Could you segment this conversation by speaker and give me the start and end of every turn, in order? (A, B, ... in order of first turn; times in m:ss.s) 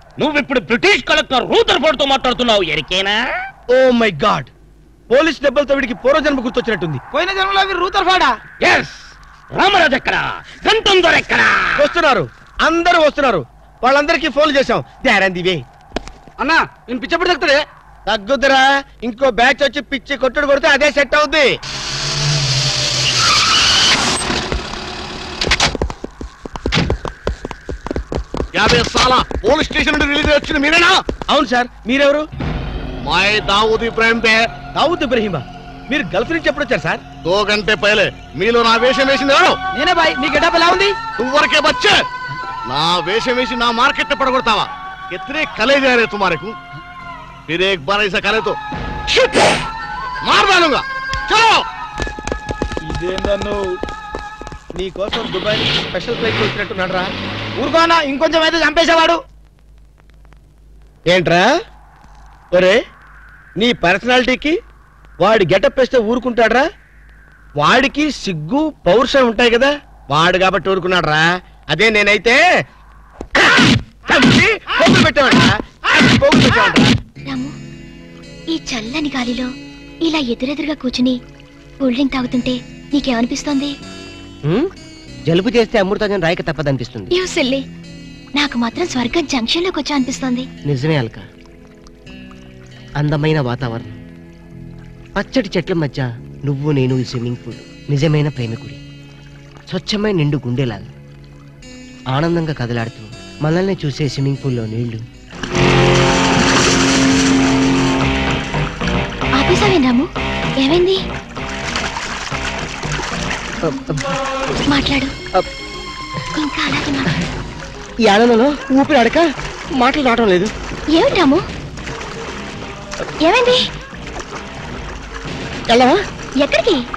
0:00.2-0:03.2 A
0:03.7-0:04.5 B
0:05.1-0:07.0 B
0:07.1-0:08.3 C
0:08.6-0:11.9 A
0:11.8-0:15.6 B
0:16.4-0:17.5 C
0:18.1-0:21.5 B
0:28.5-0:31.0 D
0:31.3-0:32.2 B
0:33.0-0:34.5 D
0:34.7-0:37.0 B
0:37.2-0:39.6 D
0:39.7-0:41.0 C
0:41.2-0:42.0 D
0:42.7-0:46.5 D
0:47.5-0:48.6 D
0:50.2-0:51.6 D
0:52.8-0:53.7 C
0:54.7-0:57.1 B
0:57.6-0:59.2 C
1:01.1-1:01.5 B
1:02.5-1:02.8 B
1:03.6-1:04.6 B
1:05.2-1:06.6 B
1:07.6-1:12.4 B
1:13.4-1:16.9 B
1:17.3-1:17.5 E
1:18.5-1:19.5 E
1:20.0-1:21.2 E
1:21.8-1:23.7 E
1:25.3-1:27.1 F
1:27.1-1:27.6 E
1:28.4-1:30.5 E
1:30.7-1:31.2 F
1:33.0-1:34.0 F
1:35.2-1:38.8 F
1:39.7-1:40.9 F
1:42.1-1:45.0 F
1:49.4-1:51.0 E
1:53.6-1:54.1 F
1:54.7-1:55.1 E
1:56.3-1:57.2 E
1:58.0-1:59.2 F
1:59.8-2:00.5 F
2:00.9-2:01.4 E
2:03.2-2:03.7 E
2:05.7-2:06.0 F
2:06.4-2:06.8 E